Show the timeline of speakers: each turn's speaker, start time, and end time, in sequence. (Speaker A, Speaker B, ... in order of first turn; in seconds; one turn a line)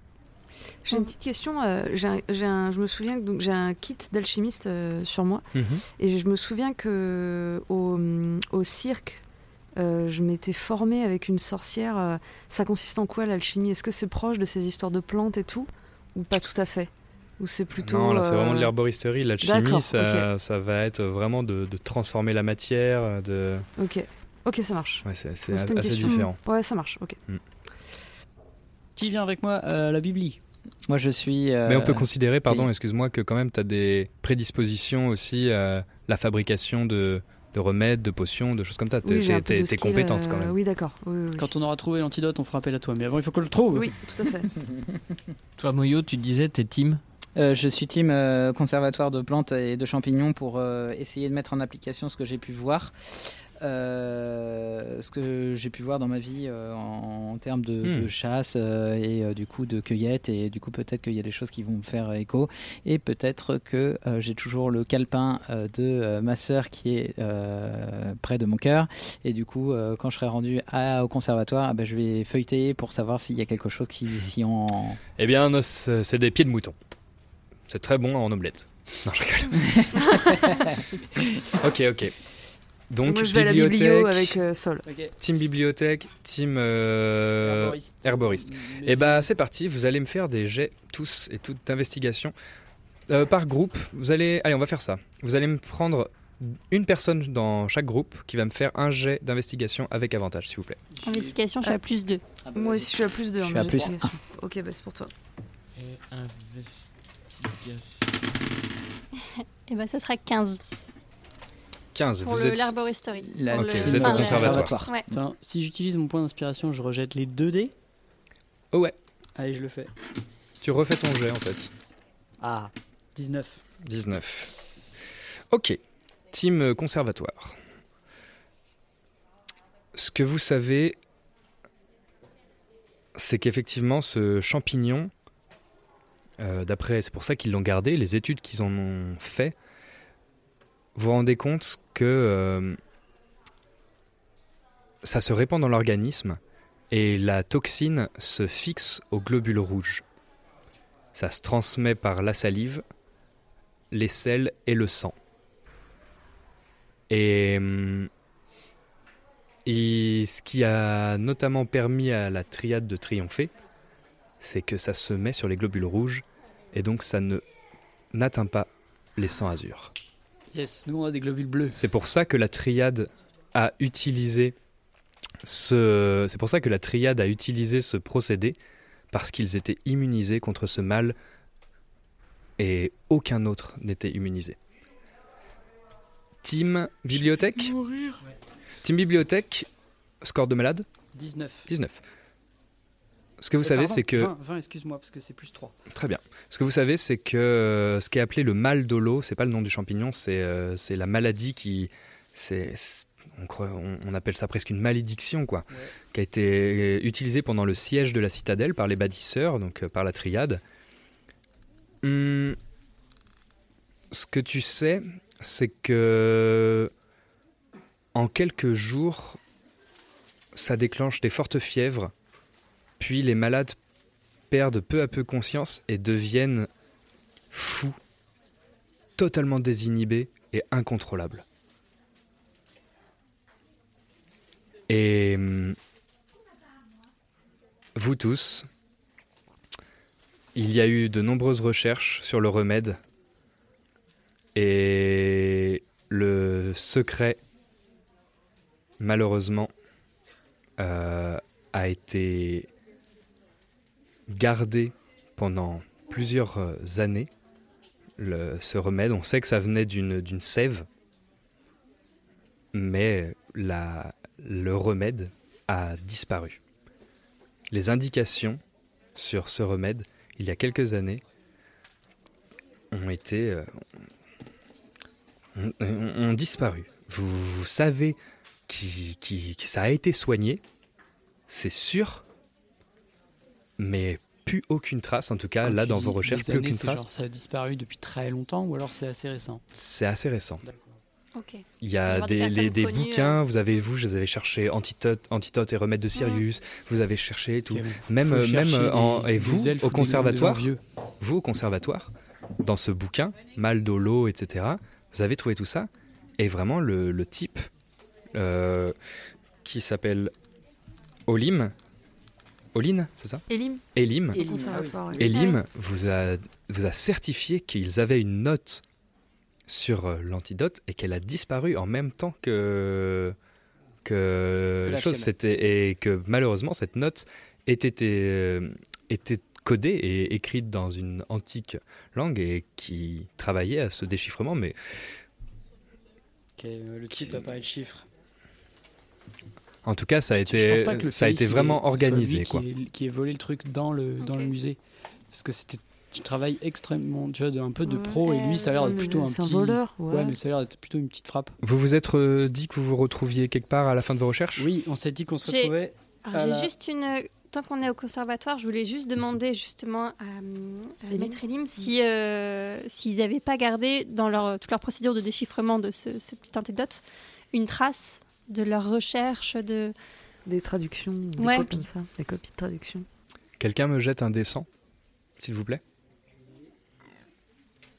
Speaker A: 0.8-5.5
Speaker B: 5.5-5.8
Speaker A: 6.0-9.2
Speaker A: 9.8-18.7
Speaker B: 17.8-23.7
Speaker A: 19.4-20.3
Speaker A: 23.8-27.2
Speaker B: 25.0-26.4
Speaker C: 28.9-30.4
Speaker D: 30.9-32.7
Speaker B: 31.7-40.5
Speaker A: 39.0-41.5
Speaker C: 41.4-43.9
Speaker A: 43.7-44.5
Speaker E: 45.6-47.0
Speaker D: 47.4-75.0
Speaker B: 57.8-58.1
Speaker B: 75.2-76.7
Speaker B: 77.7-80.6
Speaker D: 80.4-80.8
Speaker B: 81.4-82.1
Speaker B: 82.9-84.4
Speaker A: 83.0-84.8
Speaker C: 84.8-85.1
Speaker B: 85.2-92.3
Speaker C: 87.4-89.3
Speaker B: 93.1-100.8
Speaker C: 100.9-101.3
Speaker F: 101.0-102.2
Speaker D: 102.5-102.8
Speaker A: 102.5-105.1
Speaker D: 103.4-104.1
Speaker E: 105.8-106.8
Speaker E: 107.4-108.1
Speaker F: 109.4-110.6
Speaker B: 111.9-112.7
Speaker F: 112.2-115.0
Speaker D: 113.2-115.1
Speaker B: 113.5-114.7
Speaker C: 114.0-117.7
Speaker C: 119.4-119.9
Speaker B: 120.6-121.7
Speaker C: 122.4-123.6
Speaker B: 123.8-124.5
Speaker B: 125.5-125.8
Speaker B: 126.3-127.5
Speaker B: 129.9-131.0
Speaker B: 133.1-135.1
Speaker B: 136.4-139.5
Speaker B: 140.9-142.8
Speaker B: 145.0-146.4
Speaker B: 146.9-150.0
Speaker B: 151.1-152.8
Speaker B: 153.9-155.1
Speaker B: 157.1-158.1
Speaker B: 159.7-163.5
Speaker B: 164.4-167.4
Speaker B: 168.1-169.9
Speaker C: 170.5-171.8
Speaker B: 171.8-174.6
Speaker B: 175.4-178.6
Speaker B: 179.1-181.2
Speaker B: 182.6-184.6
Speaker B: 186.4-187.7
Speaker E: 187.7-188.2
Speaker B: 188.8-189.7
Speaker B: 190.2-190.9
Speaker C: 191.1-191.7
Speaker B: 191.7-192.0
Speaker B: 193.4-194.3
Speaker C: 193.6-195.7
Speaker B: 195.9-210.6
Speaker B: 212.0-212.6
Speaker B: 214.1-216.9
Speaker B: 218.1-219.4
Speaker B: 220.5-222.1
Speaker B: 223.0-223.8
Speaker B: 224.5-226.7
Speaker B: 227.5-228.0
Speaker B: 229.2-231.4
Speaker B: 234.9-235.8
Speaker B: 237.9-238.7
Speaker B: 240.5-243.0
Speaker B: 244.5-247.4
Speaker B: 249.0-249.7
Speaker B: 250.8-252.7
Speaker B: 254.3-257.3
Speaker B: 258.2-260.9
Speaker B: 262.7-266.6
Speaker B: 267.7-268.6
Speaker B: 269.1-271.2
Speaker B: 272.9-273.7
Speaker B: 275.5-280.6
Speaker B: 281.5-282.2
Speaker B: 283.8-287.1
Speaker C: 285.6-289.6
Speaker B: 289.7-290.6
Speaker C: 290.6-290.9
Speaker F: 291.3-293.4
Speaker B: 291.8-307.7
Speaker F: 296.1-296.4
Speaker C: 297.7-300.8
Speaker B: 308.3-308.9
Speaker B: 309.6-310.3
Speaker B: 311.3-311.7
Speaker B: 312.7-314.4
Speaker A: 313.5-313.8
Speaker D: 314.3-315.3
Speaker A: 314.3-315.2
Speaker B: 315.1-318.8
Speaker F: 315.3-315.6
Speaker B: 319.7-323.4
Speaker B: 324.0-334.8
Speaker D: 324.8-325.3
Speaker C: 336.6-338.0
Speaker B: 337.2-337.4
Speaker B: 339.8-342.6
Speaker C: 340.4-344.8
Speaker F: 344.2-344.5
Speaker C: 345.3-351.5
Speaker A: 347.8-350.3
Speaker B: 351.6-354.7
Speaker C: 354.6-356.7
Speaker F: 355.4-355.7
Speaker F: 356.3-367.0
Speaker A: 361.1-361.4
Speaker F: 367.5-369.9
Speaker A: 370.4-373.0
Speaker F: 371.4-371.8
Speaker B: 373.6-374.7
Speaker B: 375.4-375.8